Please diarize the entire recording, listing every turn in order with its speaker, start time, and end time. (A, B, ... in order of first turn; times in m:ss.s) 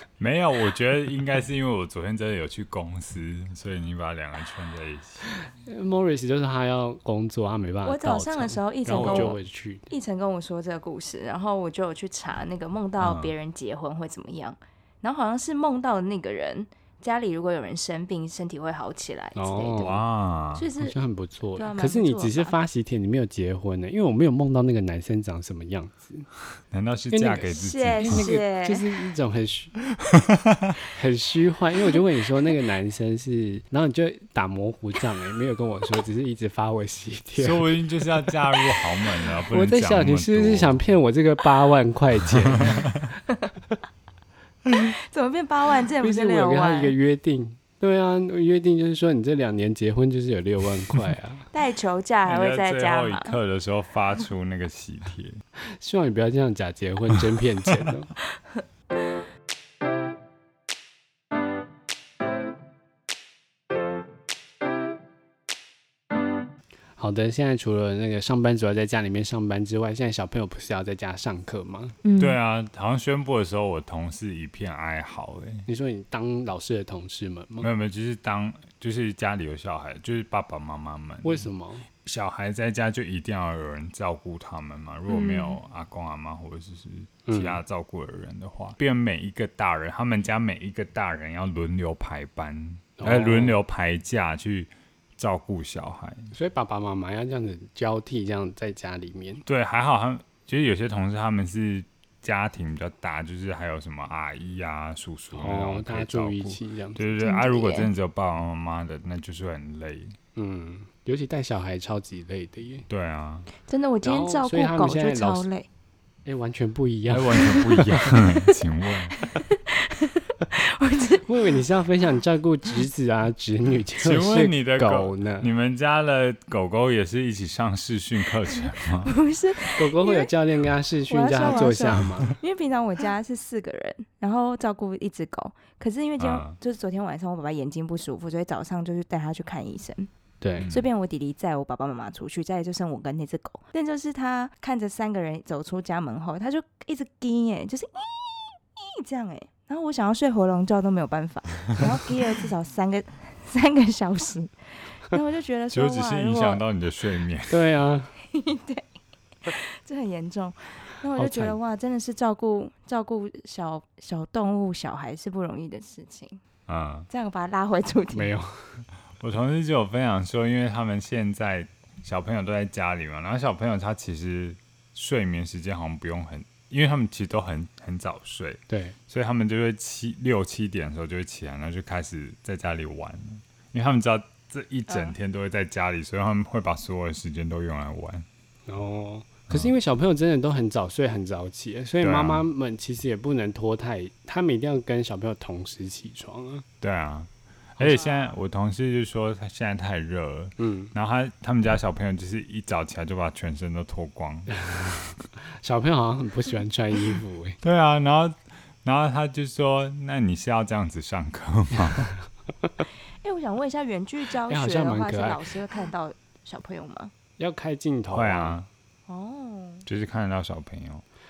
0:00.2-0:05.3 A
0:05.4-0:09.9 B
0:07.8-0:20.0 C
0:08.9-0:09.4 A
0:13.0-0:13.3 A
0:19.4-0:19.9 B
0:19.8-0:20.7 A
0:20.6-0:21.0 C
0:20.8-0:26.3 B
0:21.6-0:22.6 C
0:26.7-0:28.3 A
0:27.1-0:29.8 B
0:27.5-0:28.9 C
0:30.0-0:30.8 A
0:30.9-0:37.7 B
0:37.3-0:40.8 A
0:39.5-0:42.9 B
0:42.6-0:43.0 A
0:44.7-0:47.0 C
0:46.0-0:51.5 B
0:51.5-0:53.4 C
0:52.3-0:55.4 A
0:55.8-0:58.1 B
1:07.0-1:12.0 B
1:12.0-1:12.4 C
1:12.2-1:15.7 A
1:15.7-1:17.7 B
1:17.6-1:21.5 A
1:21.2-1:21.9 B
1:22.0-1:36.3 A
1:25.1-1:25.6 C
1:27.3-1:27.6 B
1:33.0-1:33.6 B
1:36.3-1:39.4 B
1:39.5-1:50.2 A
1:45.3-1:47.0 B
1:47.2-1:47.9 C
1:50.4-1:52.9 B
1:52.9-1:53.5 A
1:53.7-1:55.7 C
1:54.0-1:55.5 B
1:56.3-1:58.2 B
1:57.1-1:59.2 A
1:59.4-2:01.3 C
2:01.2-2:05.5 B
2:04.0-2:09.2 A
2:09.0-2:10.3 C
2:09.8-2:12.4 B
2:11.1-2:20.1 C
2:16.2-2:16.6 A
2:20.4-2:20.7 B
2:20.6-2:20.9 A
2:20.7-2:36.6 C
2:35.7-2:37.7 A
2:37.5-2:38.1 B
2:38.3-2:38.8 C
2:39.5-2:46.4 C
2:41.2-2:41.6 B
2:46.7-2:47.1 A
2:47.1-2:48.3 C
2:48.1-2:48.8 B
2:49.2-3:08.3 A
2:58.7-2:59.0 B
3:04.9-3:05.2 C
3:08.7-3:16.7 B
3:12.0-3:12.5 A
3:16.8-3:25.1 A
3:17.9-3:18.3 C
3:20.6-3:20.9 B
3:25.5-3:27.6 B
3:27.6-3:32.1 A
3:33.2-3:37.1 C
3:34.5-3:35.4 B
3:37.4-3:38.6 B
3:38.1-3:38.7 A
3:39.1-3:39.9 C
3:39.9-3:41.0 A